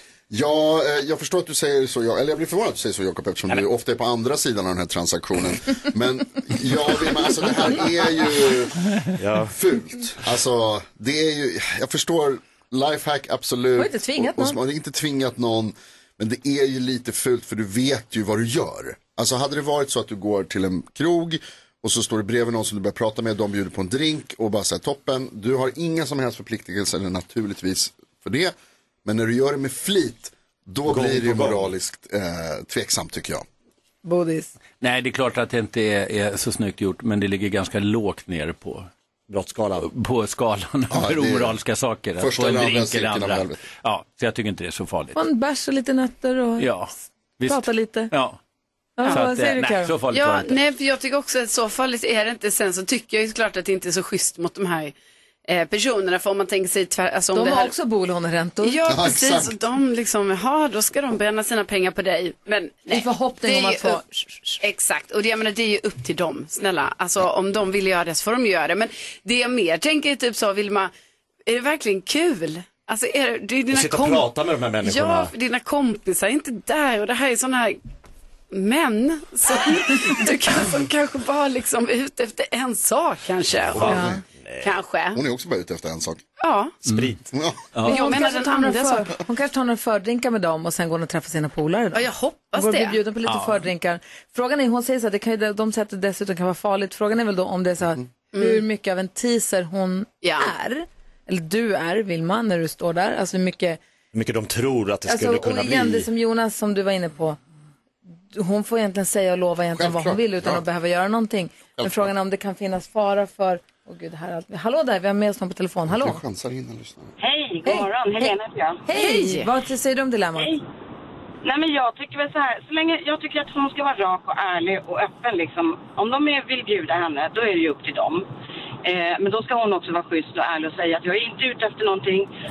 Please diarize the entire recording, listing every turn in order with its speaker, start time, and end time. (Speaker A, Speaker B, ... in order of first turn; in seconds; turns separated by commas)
Speaker A: 0.3-28.5, Speaker B: 9.2-9.5, Speaker C: 13.8-14.6, Speaker A: 29.0-33.4, Speaker B: 30.9-31.7, Speaker C: 34.0-34.5, Speaker D: 34.8-38.9, Speaker B: 39.3-39.9, Speaker D: 39.8-45.2, Speaker A: 40.9-41.6, Speaker A: 42.2-43.6, Speaker C: 45.1-46.7, Speaker D: 46.6-48.4, Speaker C: 47.4-48.1, Speaker C: 49.0-49.9, Speaker D: 49.1-50.6, Speaker E: 50.1-54.9, Speaker E: 55.5-57.7, Speaker C: 57.3-58.8, Speaker E: 58.6-64.0, Speaker A: 58.9-59.5, Speaker C: 62.9-64.6, Speaker E: 64.6-70.9, Speaker E: 71.5-74.3, Speaker B: 73.7-75.3, Speaker E: 74.8-77.8, Speaker E: 78.5-85.2, Speaker B: 83.7-84.7, Speaker A: 83.7-84.2, Speaker C: 83.8-84.2, Speaker A: 85.1-86.2, Speaker E: 86.4-86.8, Speaker D: 86.8-87.1, Speaker B: 86.8-87.2, Speaker A: 87.3-87.7, Speaker D: 87.7-88.0, Speaker E: 87.8-89.1, Speaker C: 87.8-103.8, Speaker E: 91.9-93.0, Speaker D: 93.2-93.6, Speaker E: 98.3-98.6, Speaker E: 100.2-100.5, Speaker B: 104.1-106.1, Speaker C: 105.1-107.4, Speaker C: 108.3-116.2, Speaker A: 109.7-110.6, Speaker A: 111.8-112.1, Speaker A: 115.9-117.1, Speaker F: 117.2-118.8, Speaker C: 117.6-118.3, Speaker C: 118.8-120.6, Speaker E: 118.9-119.5, Speaker F: 121.4-128.2, Speaker F: 128.8-132.3